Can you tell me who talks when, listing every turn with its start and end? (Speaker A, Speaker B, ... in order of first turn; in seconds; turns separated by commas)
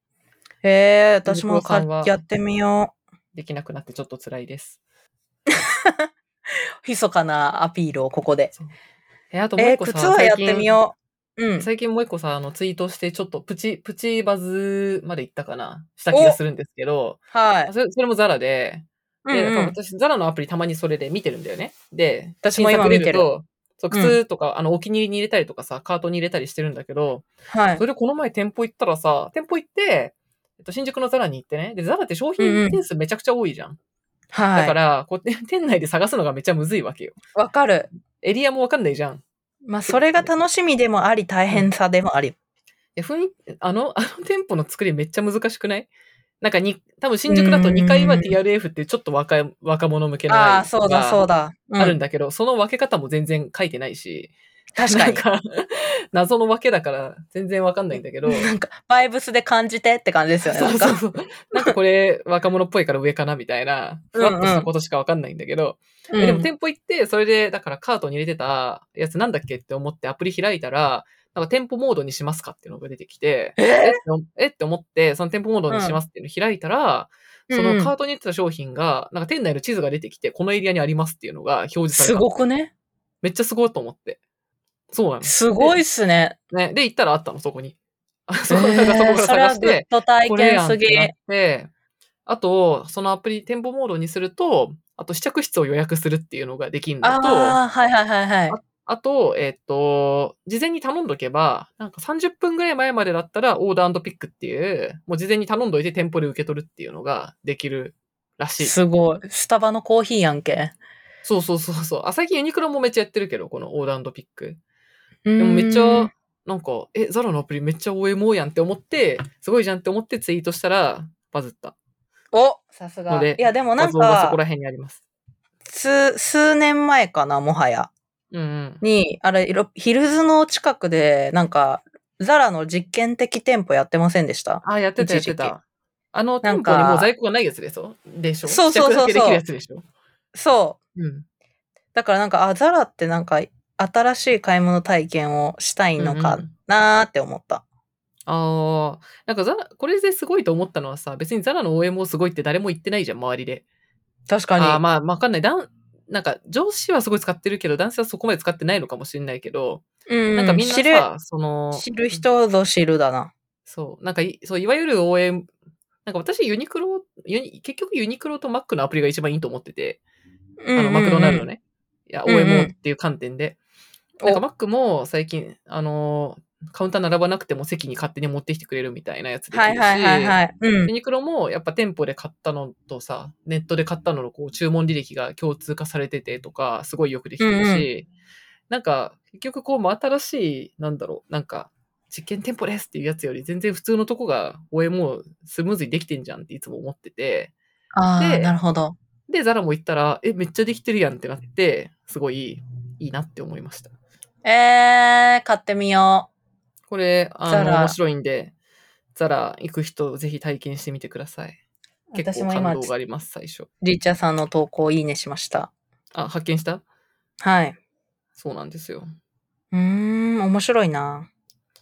Speaker A: 0.6-2.9, Speaker B: 1.2-2.1, Speaker B: 3.3-4.8, Speaker A: 5.5-6.1, Speaker A: 6.8-8.5, Speaker B: 9.3-10.8, Speaker A: 9.6-11.7, Speaker B: 11.6-33.8, Speaker A: 16.1-16.4, Speaker A: 17.3-17.7, Speaker A: 19.2-19.7, Speaker A: 22.4-23.3, Speaker A: 23.9-24.2, Speaker A: 27.5-27.8, Speaker A: 32.4-32.8, Speaker A: 34.3-34.8, Speaker B: 34.5-37.2, Speaker A: 37.3-37.9, Speaker B: 38.2-39.2, Speaker A: 39.6-42.4, Speaker B: 39.8-40.3, Speaker B: 43.0-45.9, Speaker B: 46.4-54.3, Speaker A: 47.3-48.4, Speaker A: 50.3-52.0, Speaker A: 54.7-55.2, Speaker B: 54.9-58.5, Speaker A: 58.2-61.0, Speaker B: 60.4-82.2, Speaker A: 64.1-64.7, Speaker A: 66.1-66.5, Speaker A: 73.6-74.0, Speaker A: 75.7-76.0, Speaker A: 77.5-77.9, Speaker A: 81.9-82.7, Speaker B: 83.2-84.2, Speaker B: 84.9-85.7, Speaker A: 85.2-86.4, Speaker B: 86.5-87.8, Speaker B: 88.3-91.7, Speaker A: 88.5-91.1, Speaker B: 92.2-97.6, Speaker A: 97.0-98.6, Speaker B: 98.5-108.8, Speaker A: 108.6-110.7, Speaker B: 111.2-114.6, Speaker A: 115.2-116.1, Speaker B: 115.4-121.7, Speaker A: 122.3-124.4, Speaker B: 123.1-125.0, Speaker A: 125.7-127.9, Speaker B: 128.3-128.8, Speaker A: 128.8-135.5, Speaker B: 134.6-135.6, Speaker B: 136.1-139.8, Speaker A: 136.4-137.1, Speaker A: 138.4-139.4, Speaker A: 140.3-140.8, Speaker B: 140.9-141.2, Speaker A: 141.9-147.6, Speaker B: 146.0-146.5, Speaker B: 148.2-153.6, Speaker A: 154.3-154.8, Speaker B: 154.6-162.2, Speaker A: 160.1-161.1, Speaker A: 161.7-163.3, Speaker B: 163.7-165.5, Speaker B: 166.0-170.0, Speaker A: 170.6-171.5, Speaker B: 170.7-173.6, Speaker A: 172.3-172.7, Speaker B: 174.2-188.1, Speaker A: 179.5-180.9, Speaker A: 187.4-187.9, Speaker B: 188.7-197.5, Speaker A: 197.9-198.9, Speaker B: 198.2-198.5, Speaker B: 199.3-203.9, Speaker A: 204.4-206.3, Speaker B: 206.9-208.5, Speaker A: 207.5-208.0, Speaker B: 209.1-211.6, Speaker A: 212.1-212.9, Speaker B: 212.1-213.7, Speaker A: 213.8-215.7, Speaker B: 216.1-216.8, Speaker A: 217.4-217.8, Speaker B: 218.4-219.1, Speaker A: 219.7-221.3